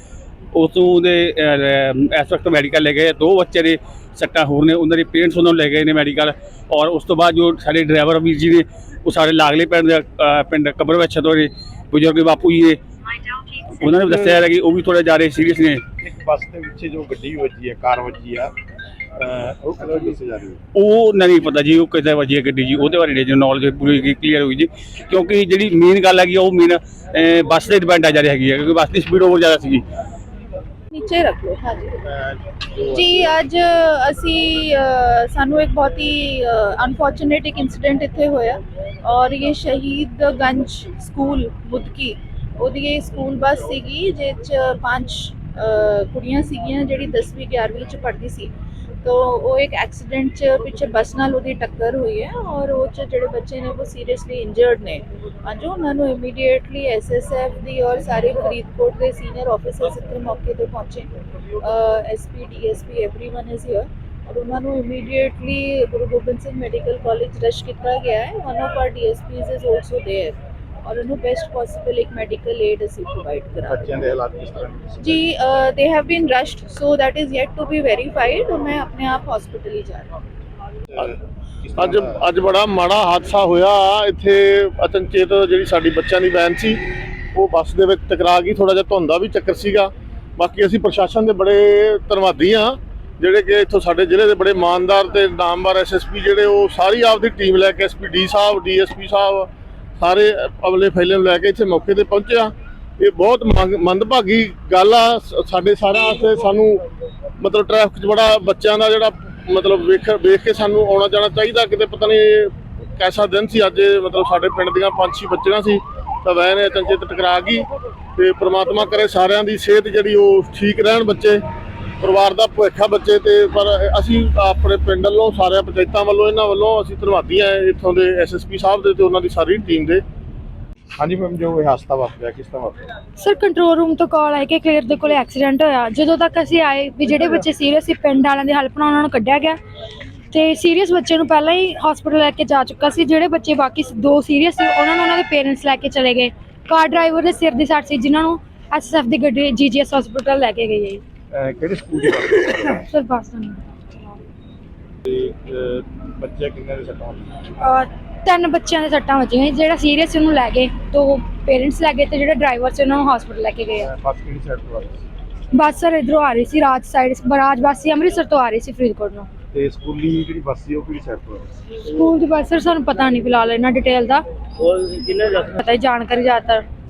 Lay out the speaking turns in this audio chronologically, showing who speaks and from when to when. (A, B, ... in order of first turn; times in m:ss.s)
0:00.5-0:15.8 A
0:16.0-0:18.5 B
0:19.2-0:20.6 B
0:20.7-0:29.8 A
0:30.9-0:32.0 C
0:32.3-0:33.4 B
0:32.9-0:48.5 C
0:49.0-1:13.8 C
1:13.6-1:15.2 B
1:15.0-1:20.1 C
1:21.6-1:22.0 B
1:21.8-1:26.8 D
1:27.3-1:46.8 D
1:47.4-2:01.4 D
2:02.0-2:10.0 D
2:11.0-2:12.8 B
2:13.2-2:19.6 E
2:20.3-2:31.0 E
2:31.3-2:32.8 B
2:32.8-2:34.0 E
2:35.0-2:37.3 B
2:37.6-2:43.9 E
2:43.8-2:45.0 B
2:45.5-2:49.3 E
2:49.5-2:51.5 B
2:51.8-2:54.2 E
2:54.8-2:56.6 E